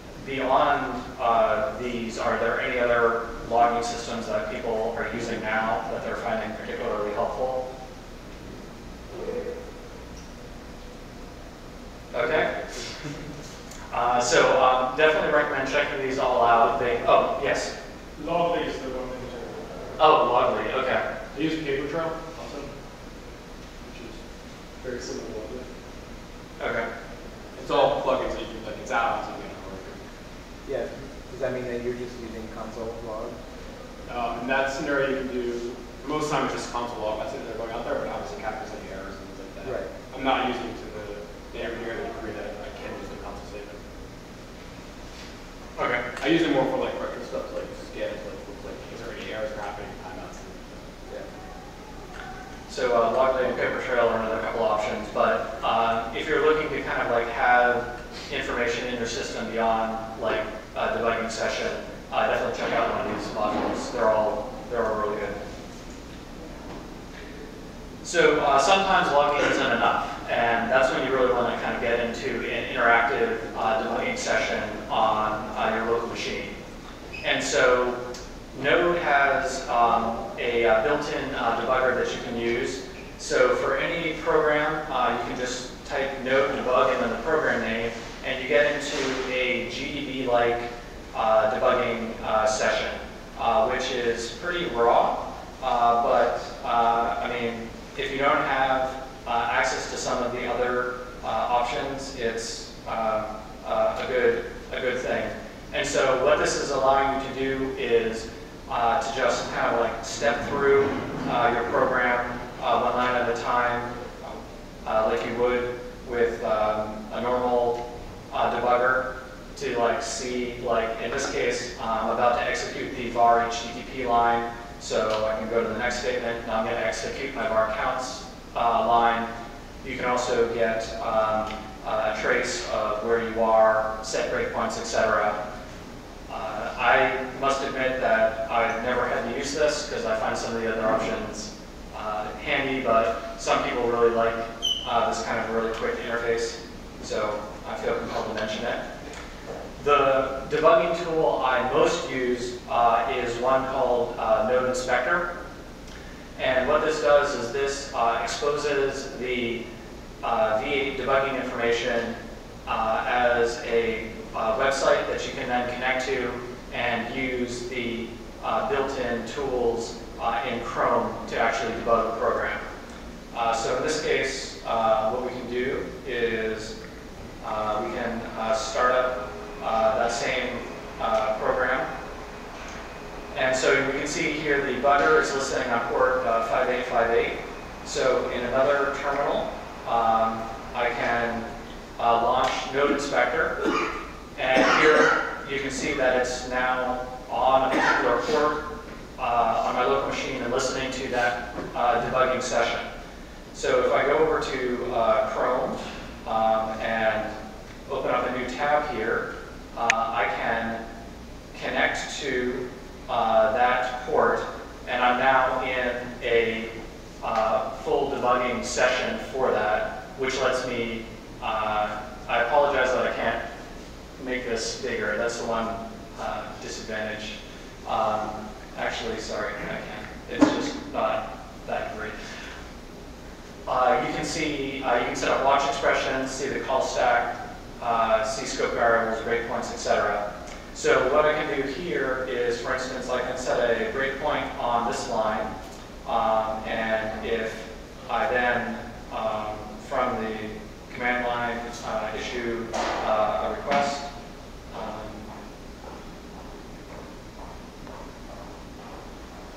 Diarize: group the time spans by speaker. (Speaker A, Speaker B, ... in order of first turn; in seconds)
Speaker A: 0.2-7.6, 12.1-12.5, 13.9-17.7, 20.0-21.1, 26.6-26.9, 45.8-46.0, 52.7-65.4, 68.0-76.6, 77.2-78.0, 78.5-129.3, 129.8-135.4, 136.3-148.8, 149.8-155.3, 156.4-159.6, 160.2-172.7, 173.3-176.8, 177.4-181.9, 183.3-193.6, 194.4-198.6, 199.2-202.9, 203.5-207.3, 207.9-210.8, 211.5-223.4, 224.2-232.2, 233.7-245.5, 246.1-254.1, 254.7-255.3
Speaker B: 18.2-19.7, 22.3-22.7, 23.8-24.2
Speaker C: 21.3-22.4, 24.8-25.7, 27.5-30.0, 34.1-43.8, 46.2-51.2
Speaker D: 30.7-33.4, 39.6-39.9